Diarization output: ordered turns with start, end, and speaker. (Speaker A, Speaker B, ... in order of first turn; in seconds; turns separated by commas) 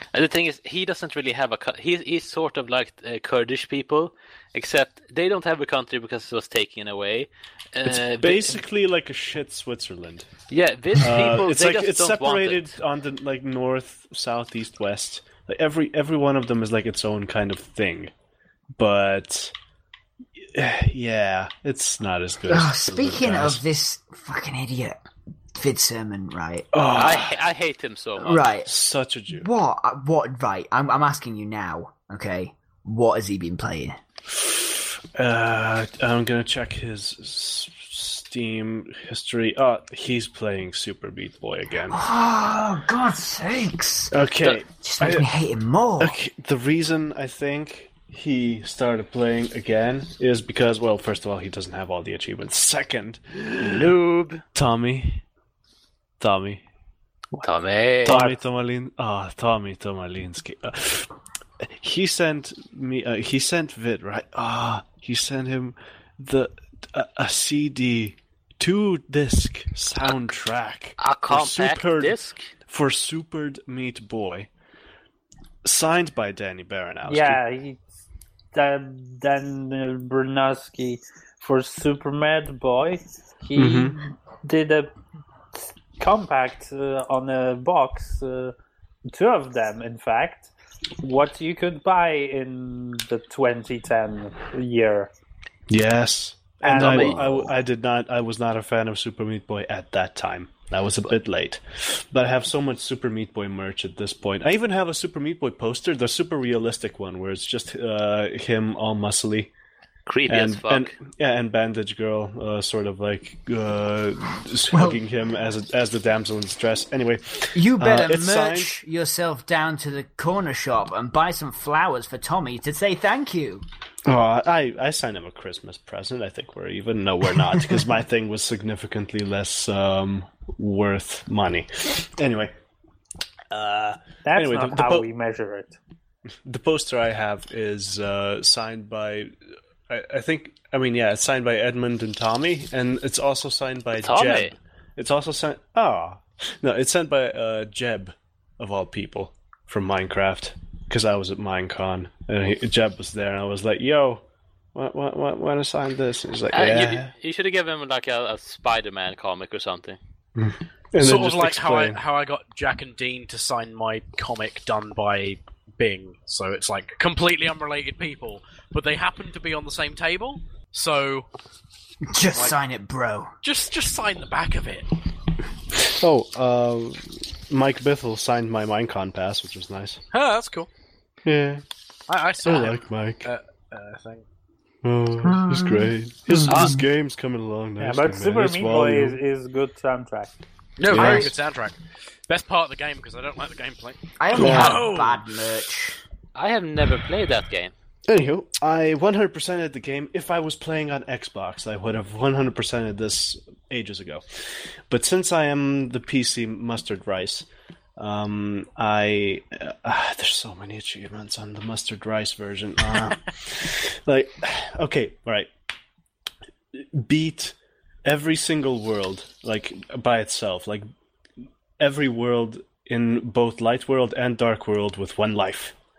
Speaker A: 0.1-8.6, Speaker B: 7.9-10.3, Speaker A: 10.5-12.8, Speaker B: 11.0-18.1, Speaker B: 18.8-19.5, Speaker B: 20.4-23.6, Speaker C: 22.5-25.0, Speaker C: 25.6-26.8, Speaker B: 26.7-27.4, Speaker A: 26.9-28.4, Speaker C: 28.2-28.7, Speaker B: 28.6-29.5, Speaker C: 29.3-34.0, Speaker B: 34.3-42.0, Speaker C: 41.9-44.2, Speaker B: 44.1-45.3, Speaker C: 44.8-46.2, Speaker B: 46.0-53.9, Speaker A: 53.6-54.4, Speaker B: 54.5-55.2, Speaker B: 56.2-56.6, Speaker A: 57.4-58.3, Speaker B: 58.0-72.2, Speaker D: 58.1-58.3, Speaker A: 71.0-72.5, Speaker B: 72.7-74.5, Speaker B: 75.6-77.4, Speaker D: 77.1-77.8, Speaker D: 78.5-84.9, Speaker B: 83.6-84.0, Speaker D: 86.0-88.5, Speaker D: 89.1-95.1, Speaker B: 95.7-109.5, Speaker D: 96.6-97.5, Speaker C: 96.8-97.1, Speaker A: 110.1-111.0, Speaker B: 110.3-118.8, Speaker C: 114.7-115.0, Speaker C: 117.5-123.7, Speaker B: 124.0-132.6, Speaker B: 133.5-135.1, Speaker D: 134.2-135.8, Speaker B: 136.4-139.3, Speaker B: 139.9-157.1, Speaker A: 144.0-144.5, Speaker A: 156.5-160.0, Speaker B: 160.4-162.0, Speaker E: 161.0-171.3, Speaker C: 172.1-173.3, Speaker E: 172.3-172.6, Speaker E: 173.4-174.9, Speaker B: 175.8-180.0, Speaker E: 180.1-180.7, Speaker B: 181.2-181.6, Speaker E: 182.1-184.2, Speaker B: 182.4-183.3, Speaker B: 184.8-189.2, Speaker C: 185.5-186.8, Speaker A: 186.5-186.8, Speaker D: 187.8-190.4, Speaker E: 190.8-191.8, Speaker B: 190.9-191.3, Speaker C: 190.9-191.3, Speaker E: 192.3-195.3, Speaker C: 194.2-196.0, Speaker B: 194.3-194.8, Speaker A: 196.3-197.7, Speaker B: 198.1-215.5, Speaker B: 216.7-220.9, Speaker B: 221.8-225.8